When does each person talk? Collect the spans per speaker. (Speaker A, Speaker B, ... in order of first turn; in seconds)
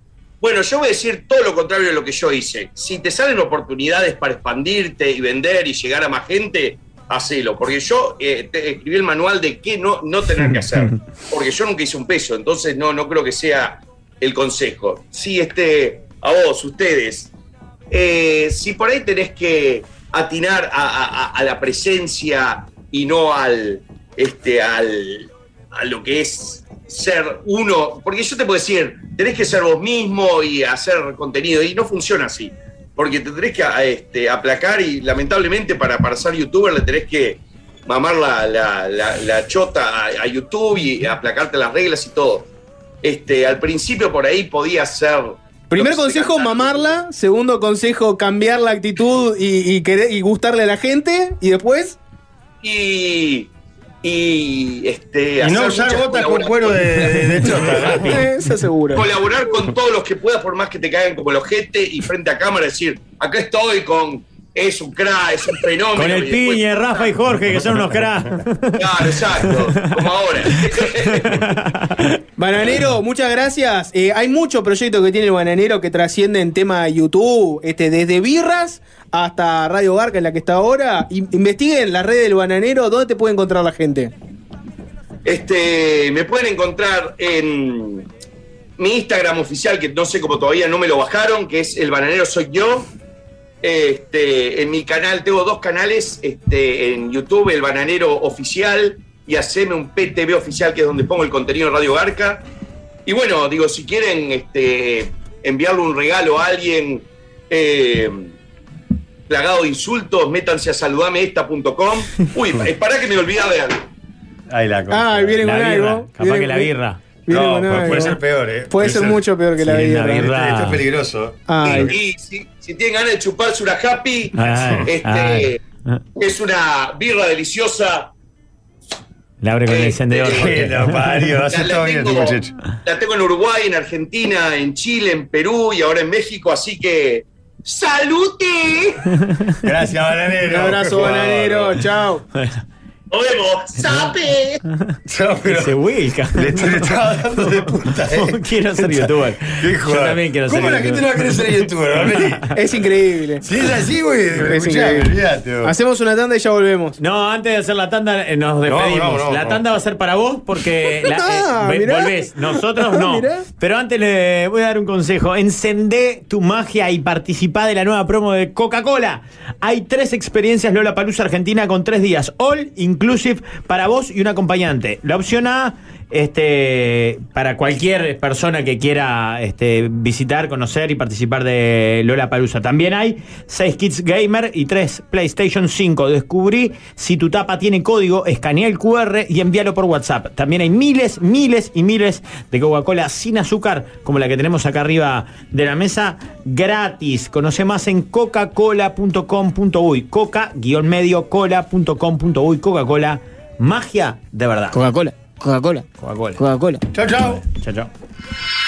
Speaker A: 0.4-17.3, 17.9-42.5, 43.0-46.9, 52.6-53.5, 54.0-58.0, 58.9-67.1, 68.8-71.5, 85.2-88.1, 88.8-92.9, 93.6-102.4, 103.0-108.3, 109.3-113.8, 121.6-125.6, 126.2-128.1, 129.7-130.6, 131.4-139.1, 143.1-144.6
Speaker B: 45.7-52.0, 58.0-59.1, 72.4-84.1, 114.9-116.7, 117.3-120.3, 121.5-121.9, 140.5-142.2, 152.5-153.4, 154.4-157.0, 161.1-163.4
Speaker C: 55.4-58.3, 114.5-115.4, 117.3-119.2, 120.1-121.8, 130.3-132.5, 139.6-141.8, 145.1-145.7, 146.3-152.5, 153.4-155.7, 158.7-159.6, 206.9-207.4
Speaker D: 65.9-70.0, 71.2-72.1, 115.4-117.0, 117.7-118.2, 119.6-120.8, 124.4-126.0, 129.4-131.4, 145.5-152.5, 157.0-204.8, 206.0-206.4, 207.1-207.9
Speaker E: 204.7-206.8